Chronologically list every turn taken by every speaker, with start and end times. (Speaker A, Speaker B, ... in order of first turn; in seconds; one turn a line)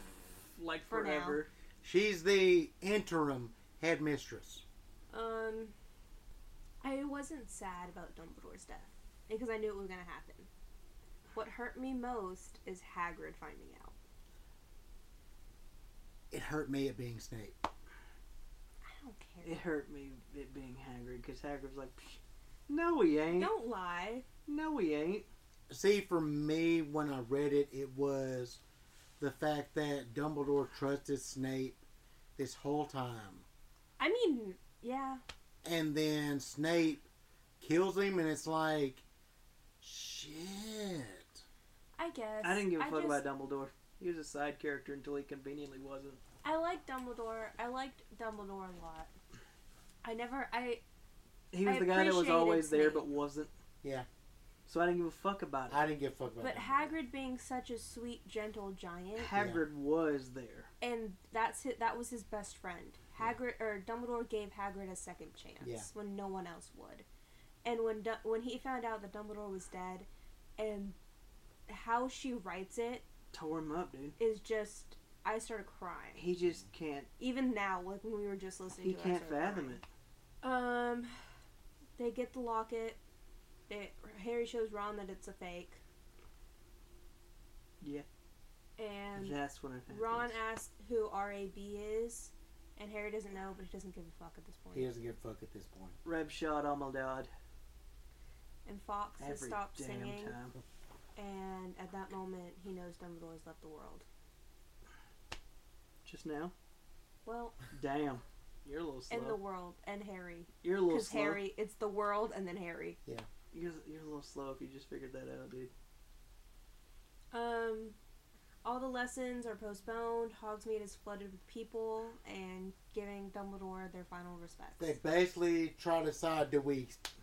Speaker A: 0.6-1.5
Speaker B: 0.9-1.4
Speaker C: 1.8-4.6
Speaker B: 5.1-5.7
Speaker B: 6.8-10.5
Speaker B: 11.3-13.9
Speaker C: 16.3-17.6
Speaker B: 18.8-19.6
Speaker A: 19.4-23.5
Speaker B: 23.4-24.3
Speaker A: 24.5-25.3
Speaker C: 25.7-28.6
Speaker C: 29.2-31.8
Speaker C: 32.4-33.5
Speaker B: 34.0-35.2
Speaker C: 35.6-37.0
Speaker C: 37.6-39.0
Speaker C: 39.8-41.4
Speaker B: 42.0-43.2
Speaker A: 42.4-46.2
Speaker B: 46.4-49.1
Speaker B: 50.0-50.8
Speaker A: 51.5-53.5
Speaker B: 51.6-53.0
Speaker A: 54.7-55.8
Speaker C: 55.7-57.0
Speaker B: 56.4-59.4
Speaker A: 59.2-60.7
Speaker C: 59.4-59.6
Speaker B: 60.8-67.1
Speaker C: 65.6-65.9
Speaker B: 67.6-71.0
Speaker B: 71.7-73.0
Speaker A: 73.3-74.2
Speaker B: 74.2-76.2
Speaker A: 76.2-77.1
Speaker B: 77.2-79.8
Speaker A: 78.8-79.8
Speaker B: 80.4-81.2
Speaker B: 82.0-83.0
Speaker B: 83.7-85.8
Speaker A: 87.8-88.1
Speaker B: 88.8-89.4
Speaker A: 89.2-90.3
Speaker B: 89.9-94.9
Speaker C: 94.7-96.0
Speaker A: 96.0-97.3
Speaker B: 98.7-100.4
Speaker A: 99.2-100.6
Speaker B: 101.2-104.0
Speaker A: 106.0-106.5
Speaker B: 107.2-107.6
Speaker A: 107.7-109.4
Speaker B: 109.1-113.0
Speaker A: 110.6-111.4
Speaker A: 113.5-115.7
Speaker B: 117.3-118.0
Speaker B: 118.6-125.0
Speaker C: 124.8-127.0